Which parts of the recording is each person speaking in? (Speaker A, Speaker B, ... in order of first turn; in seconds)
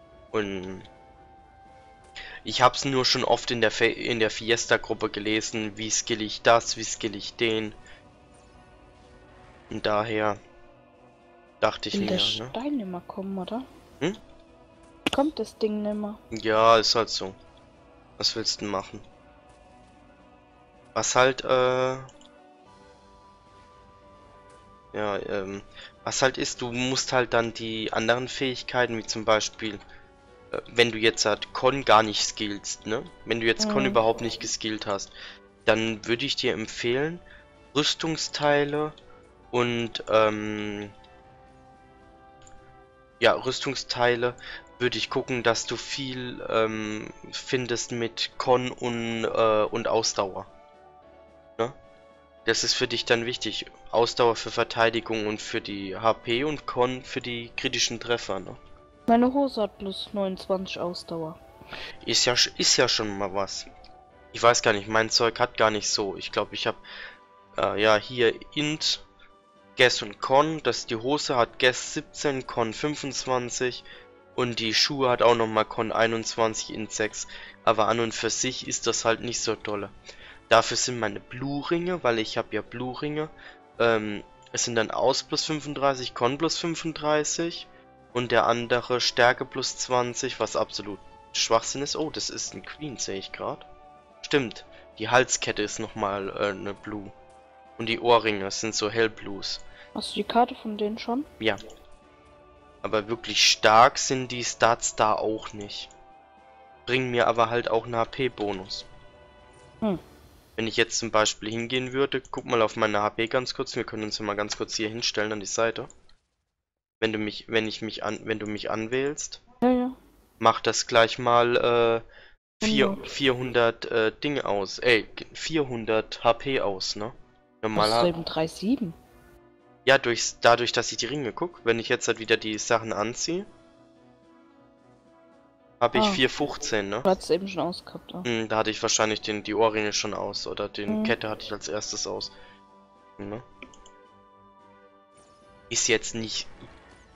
Speaker A: 0.3-0.9, 2.4-7.8, 9.7-10.4, 11.6-12.6, 16.3-17.4, 18.2-19.0, 20.9-22.1, 24.9-29.8, 30.5-35.1, 35.6-37.2, 37.7-39.0, 39.5-40.9, 43.2-50.5, 52.5-58.6, 62.0-63.7, 64.3-66.8, 67.6-69.0, 69.8-73.8, 74.4-79.9, 80.5-93.7, 94.2-97.1, 97.8-99.6, 102.8-105.9, 106.9-108.9, 110.6-115.9, 117.0-119.4, 120.4-122.0, 122.6-128.1, 129.9-133.5, 135.8-137.1, 138.2-142.3, 143.2-143.4, 145.7-146.5
Speaker B: 11.9-13.7, 15.1-16.2, 33.6-34.0, 59.1-61.4, 100.0-101.3, 119.6-120.0, 122.6-123.0, 127.8-129.0, 135.9-136.2, 137.1-138.3, 140.9-141.2